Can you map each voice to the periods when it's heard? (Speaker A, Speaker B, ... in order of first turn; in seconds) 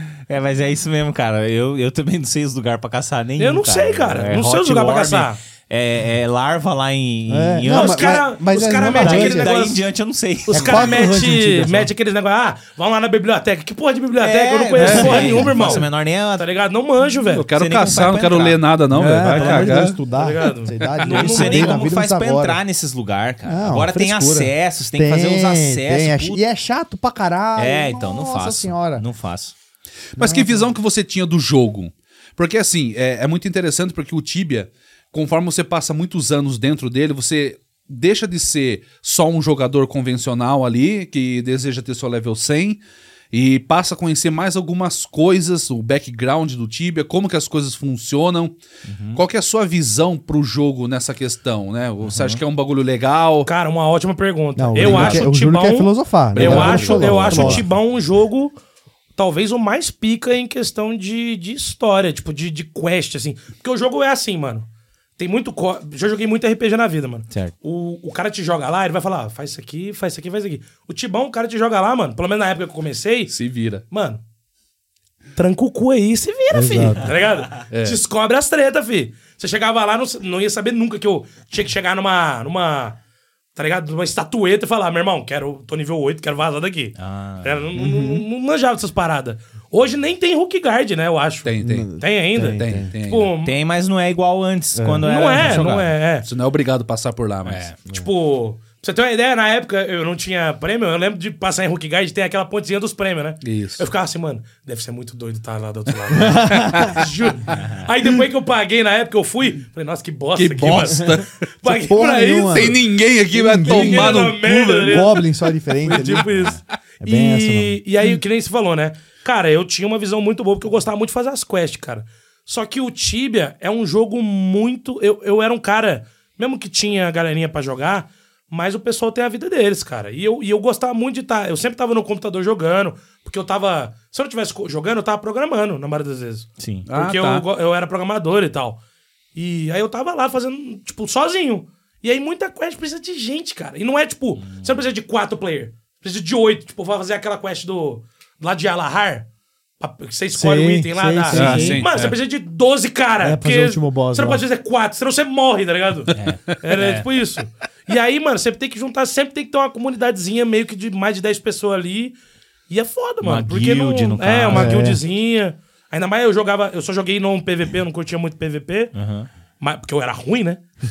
Speaker A: 0.3-8.2, 8.8-11.1, 14.2-16.5, 17.5-18.6, 19.3-19.8, 21.0-26.4, 27.6-29.5, 48.9-49.2, 52.0-52.4, 87.0-87.6, 93.4-95.8, 97.4-97.8, 107.5-107.8, 136.6-136.8, 144.3-144.8, 151.4-152.1, 156.1-157.1, 163.2-164.8, 168.9-169.3
Speaker B: 3.4-5.4, 7.7-9.8, 10.5-17.5, 19.4-21.9, 53.4-58.5, 59.1-73.3, 73.9-74.2, 75.3-83.0, 83.5-93.5, 95.0-96.3, 97.8-112.8, 113.6-115.3, 115.8-138.8, 139.3-149.3, 149.8-162.2, 162.7-168.9, 169.6-170.6
Speaker C: 4.4-5.2, 14.8-15.5, 17.2-20.0, 30.1-42.8, 43.3-48.5, 49.1-53.5, 54.8-55.2, 56.3-57.6, 73.3-73.8, 77.7-78.0, 91.4-93.3, 96.2-97.7, 103.4-103.8, 106.5-107.0, 110.3-111.4, 112.5-115.2, 115.9-116.2, 136.9-137.4, 151.3-152.1
Speaker D: 7.3-9.5, 10.5-11.9, 18.9-22.6, 23.4-29.0, 30.1-30.7, 54.5-57.7, 76.5-77.2, 87.8-88.2, 91.6-92.9, 94.7-95.7, 106.1-106.9, 110.9-117.8, 150.3-151.8, 153.2-154.4, 164.5-165.0